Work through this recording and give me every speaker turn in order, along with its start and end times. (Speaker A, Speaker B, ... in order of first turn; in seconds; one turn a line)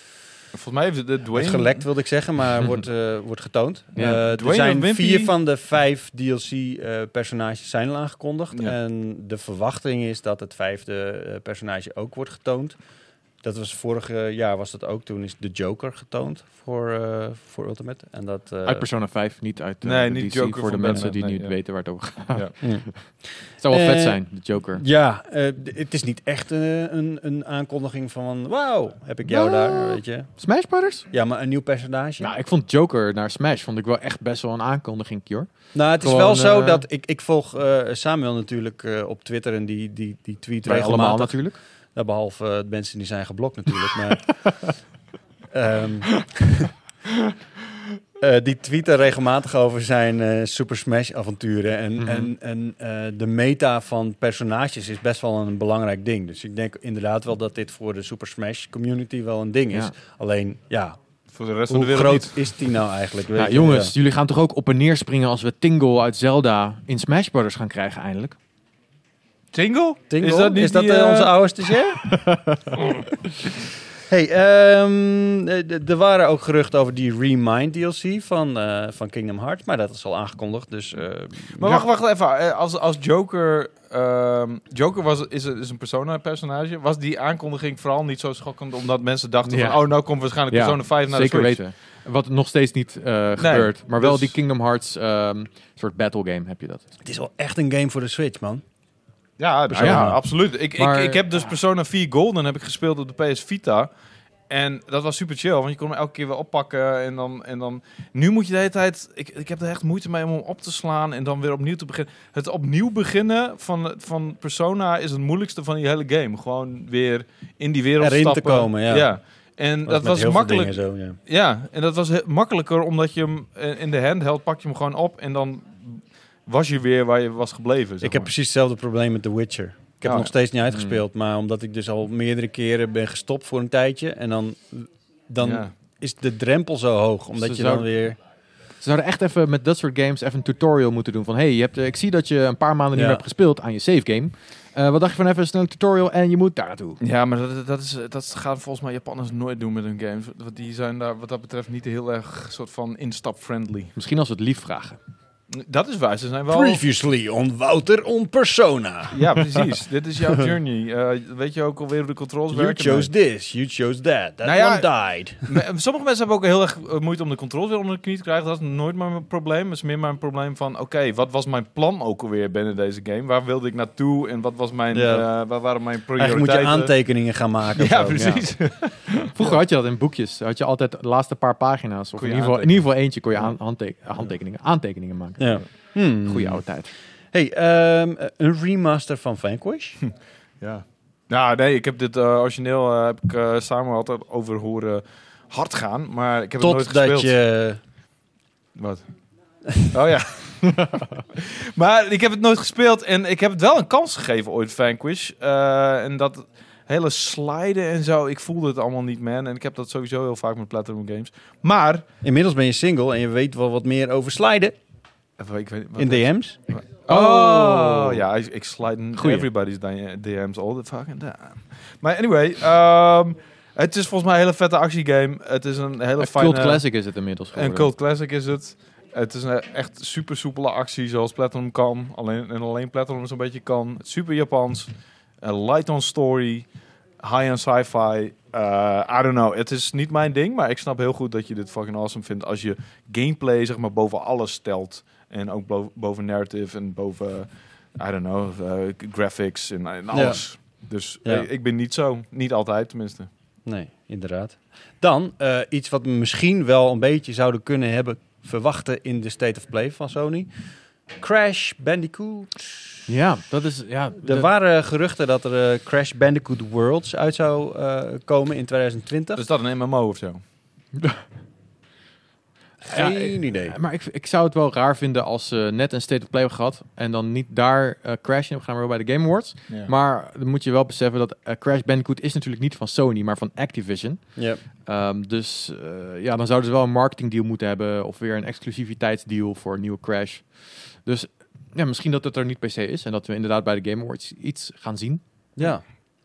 Speaker A: 0.5-1.8
Speaker B: 1.3-12.8
Speaker A: 4.0-5.3
Speaker B: 13.4-18.9
Speaker C: 18.6-23.1
Speaker A: 19.8-21.6
Speaker A: 22.3-22.5
Speaker B: 22.6-22.9
Speaker C: 23.6-24.8
Speaker B: 23.7-24.2
Speaker B: 24.8-30.3
Speaker C: 29.2-31.0
Speaker B: 31.1-32.3
Speaker C: 32.2-36.9
Speaker B: 35.7-41.4
Speaker C: 40.6-41.6
Speaker B: 41.9-44.5
Speaker B: 45.5-46.7
Speaker B: 48.2-61.0
Speaker C: 52.0-52.3
Speaker A: 61.3-62.5
Speaker B: 61.7-63.9
Speaker C: 63.3-68.4
Speaker A: 69.5-71.3
Speaker B: 70.1-72.1
Speaker C: 72.0-72.8
Speaker B: 74.1-81.6
Speaker A: 81.6-91.6
Speaker C: 89.5-89.8
Speaker C: 90.5-96.8
Speaker A: 93.4-94.3
Speaker B: 97.0-98.6
Speaker A: 99.4-103.9
Speaker B: 99.7-100.2
Speaker C: 99.8-100.2
Speaker C: 100.8-101.5
Speaker A: 104.5-128.3
Speaker B: 118.0-119.1
Speaker B: 119.8-121.2
Speaker B: 128.0-138.2
Speaker A: 130.0-130.3
Speaker C: 130.7-131.0
Speaker A: 135.4-135.7
Speaker C: 137.4-137.9
Speaker C: 138.8-147.0
Speaker B: 142.9-143.2
Speaker A: 147.0-153.9
Speaker C: 153.9-155.0
Speaker A: 155.5-156.8
Speaker B: 156.5-159.7
Speaker A: 159.1-163.1
Speaker B: 162.5-165.5
Speaker A: 164.4-164.9
Speaker A: 165.4-176.9
Speaker B: 174.9-175.2
Speaker B: 176.2-178.4
Speaker A: 177.8-179.4
Speaker C: 178.2-178.5
Speaker C: 179.2-185.6
Speaker A: 182.2-182.8
Speaker B: 185.4-186.6
Speaker C: 186.2-186.9
Speaker B: 187.3-190.0
Speaker A: 190.6-197.3
Speaker B: 196.6-197.8
Speaker A: 198.8-199.0
Speaker A: 199.9-212.0
Speaker B: 212.2-214.8
Speaker A: 215.4-226.8
Speaker B: 216.0-216.6
Speaker C: 217.1-218.2
Speaker C: 219.2-219.5
Speaker C: 226.2-227.9
Speaker A: 227.5-234.9
Speaker A: 235.4-236.7
Speaker A: 237.2-253.3
Speaker B: 250.1-250.4
Speaker B: 253.7-260.5
Speaker B: 261.2-263.0
Speaker C: 263.1-264.5
Speaker B: 264.2-269.4
Speaker A: 269.4-270.4
Speaker C: 270.9-271.2
Speaker B: 272.8-273.8
Speaker C: 272.8-284.3
Speaker B: 284.4-284.6
Speaker C: 284.8-290.5
Speaker C: 291.0-295.2
Speaker B: 295.6-295.8